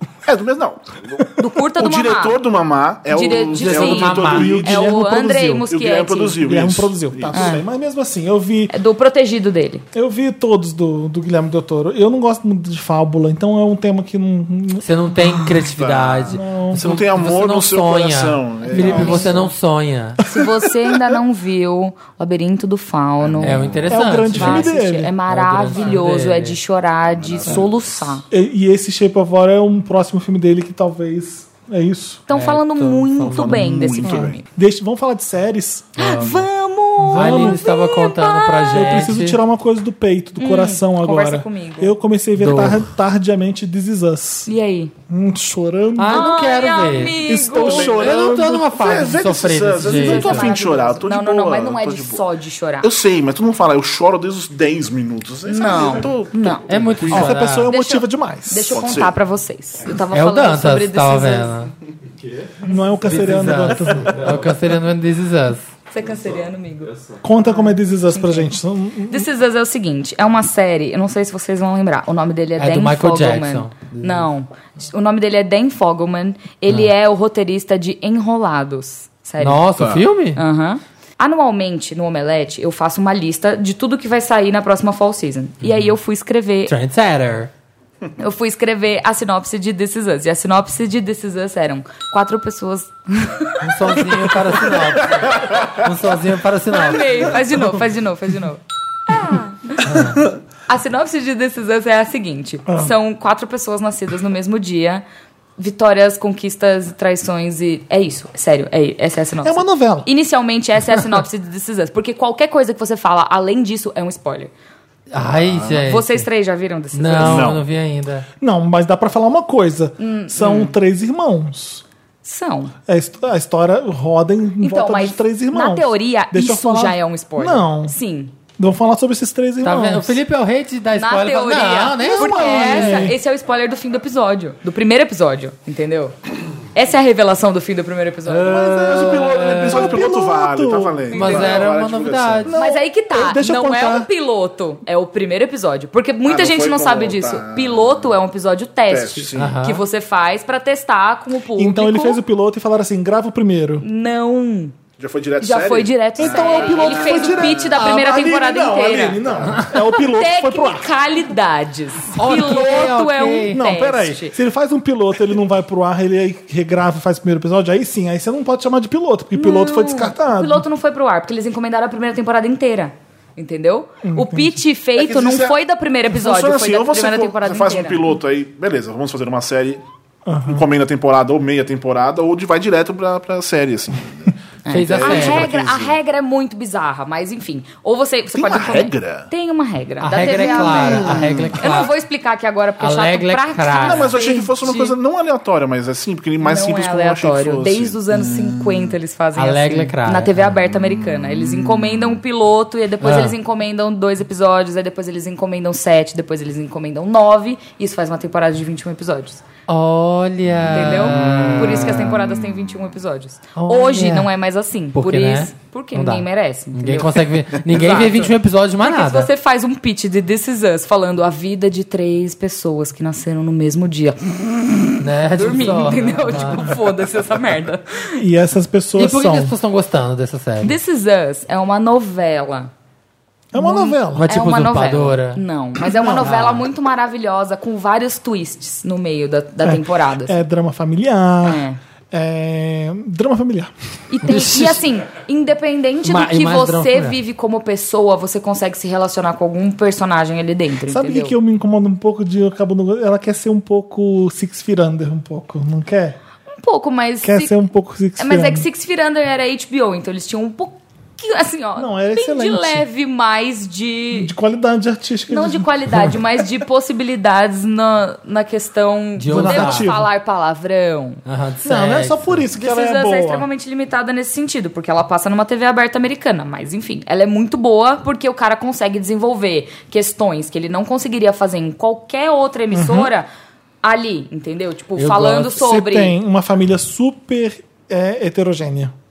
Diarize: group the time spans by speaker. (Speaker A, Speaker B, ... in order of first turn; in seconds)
Speaker A: 0.2-7.6, 15.7-19.5, 23.2-24.0, 27.1-28.1, 33.2-34.4, 47.6-52.2, 52.8-57.3, 58.7-59.2, 79.8-80.0, 115.3-115.9, 117.2-117.6, 138.5-142.5, 146.3-148.1, 148.9-149.6, 155.0-157.6, 175.0-175.6, 176.1-179.8, 180.5-186.0, 188.3-189.3, 190.2-191.6, 193.8-198.9, 201.3-202.0
Speaker B: 1.4-2.4, 3.1-6.4, 7.3-7.6, 8.7-9.8, 18.7-19.5, 20.2-23.7, 24.3-28.2, 32.3-34.5, 36.0-38.9, 40.4-42.0, 44.5-44.9, 46.1-48.0, 49.8-52.9, 55.5-56.7, 57.7-61.7, 65.9-66.9, 67.5-68.5, 69.1-79.6, 80.4-86.7, 88.2-94.8, 96.7-105.0, 105.6-114.5, 115.7-117.5, 120.0-120.8, 122.2-122.7, 124.6-128.3, 130.9-136.2, 136.7-138.8, 141.2-141.7, 142.5-152.2, 153.8-154.8, 155.4-159.3, 159.9-164.4, 169.3-178.1, 184.6-194.9, 196.4-209.4, 210.6-228.2, 230.6-232.7, 233.6-240.4, 241.4-241.8, 244.1-251.3, 256.6-257.5, 258.2-264.3, 265.3-271.2, 272.6-283.3, 283.8-286.2
Speaker C: 3.6-4.7, 14.8-20.2, 23.4-24.7, 25.3-26.6, 32.3-33.7, 36.0-36.5, 37.1-39.4, 42.4-42.9, 46.0-50.5, 56.7-57.7, 60.1-61.7, 63.0-65.7, 72.6-74.2, 79.4-80.4, 86.7-87.5, 93.6-97.4, 99.8-100.2, 115.1-116.3, 116.9-118.3, 129.6-133.1, 138.3-140.1, 141.1-142.5, 149.3-149.8, 162.1-163.6, 184.7-185.5, 190.0-191.9, 192.8-194.1, 199.3-200.3, 203.0-203.3, 209.7-212.4, 213.6-214.3, 214.9-219.3, 225.0-226.7, 229.0-230.8, 234.1-235.4, 236.2-236.7, 244.2-244.8, 246.0-247.2, 269.2-269.9, 271.3-272.4, 285.0-285.6
Speaker D: 4.0-5.6, 6.4-8.7, 9.9-15.6, 16.3-16.9, 18.7-19.4, 20.2-21.1, 23.9-25.1, 28.3-32.2, 34.0-36.3, 37.0-37.7, 38.7-44.5, 45.1-46.4, 47.2-48.7, 57.1-58.8, 62.6-64.5, 67.2-69.3, 102.7-102.9, 109.4-110.1, 118.4-121.8, 122.9-128.0, 128.6-130.2, 132.0-133.2, 139.2-141.3, 142.5-144.1, 151.6-153.8, 156.2-160.9, 163.5-170.6, 174.0-174.6, 180.3-180.6, 228.2-229.5, 233.5-234.3, 235.9-236.3, 239.6-243.7, 250.9-256.2, 257.2-258.7, 261.8-262.9, 264.1-266.2, 269.3-270.1, 271.6-273.5, 282.7-283.1, 285.6-288.9